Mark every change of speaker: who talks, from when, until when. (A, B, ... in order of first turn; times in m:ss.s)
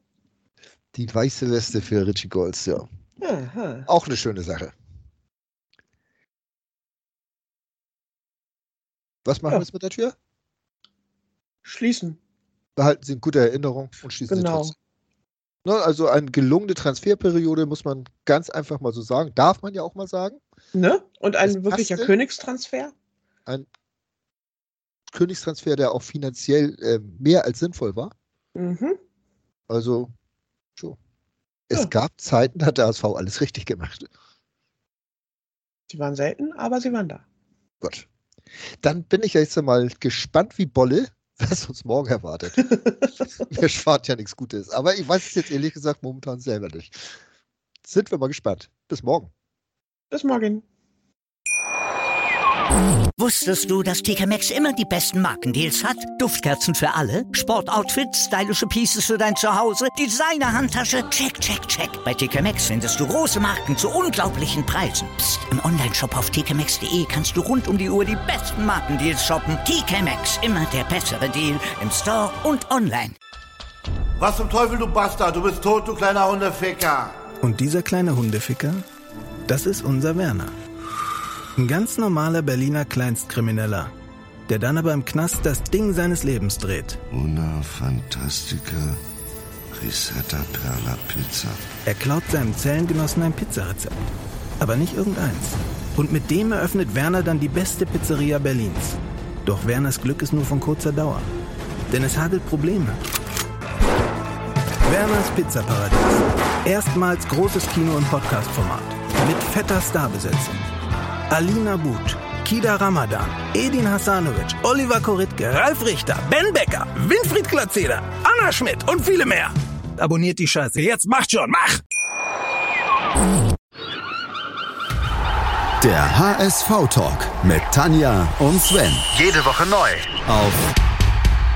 0:00.9-0:02.9 A
0:03.2-0:03.9 B
0:03.9-0:04.7 A
0:09.3-0:10.1 A
0:11.6-0:12.2 B
0:12.8-0:14.8 A
0:14.3-0:14.8 B
0:15.6-0:20.4 A
0:20.8-0:22.9 B
0:21.4-0:22.1 A
0:25.1-0:28.1 A
0:28.6-0:29.0 B
0:29.7-0:30.1 A
0:31.7-0:34.1 A
0:35.9-0:37.2 B
0:37.8-0:38.1 A
0:38.8-0:42.7 A
0:43.5-0:47.0 A
0:47.8-0:49.3 A
0:50.1-0:50.6 B
0:53.2-1:13.2 C
1:14.2-1:17.1 D
1:17.4-1:18.8 E
1:19.5-1:20.5 E
1:21.6-1:23.9 E
1:24.5-1:27.0 E
1:27.1-1:29.0 F
1:29.7-1:31.6 F
1:31.9-1:34.0 E
1:34.6-1:41.3 E
1:41.9-1:43.0 E
1:44.8-1:50.6 E
1:51.3-2:01.8 E
2:05.8-2:09.1 G
2:09.2-2:10.1 D
2:10.2-2:10.7 G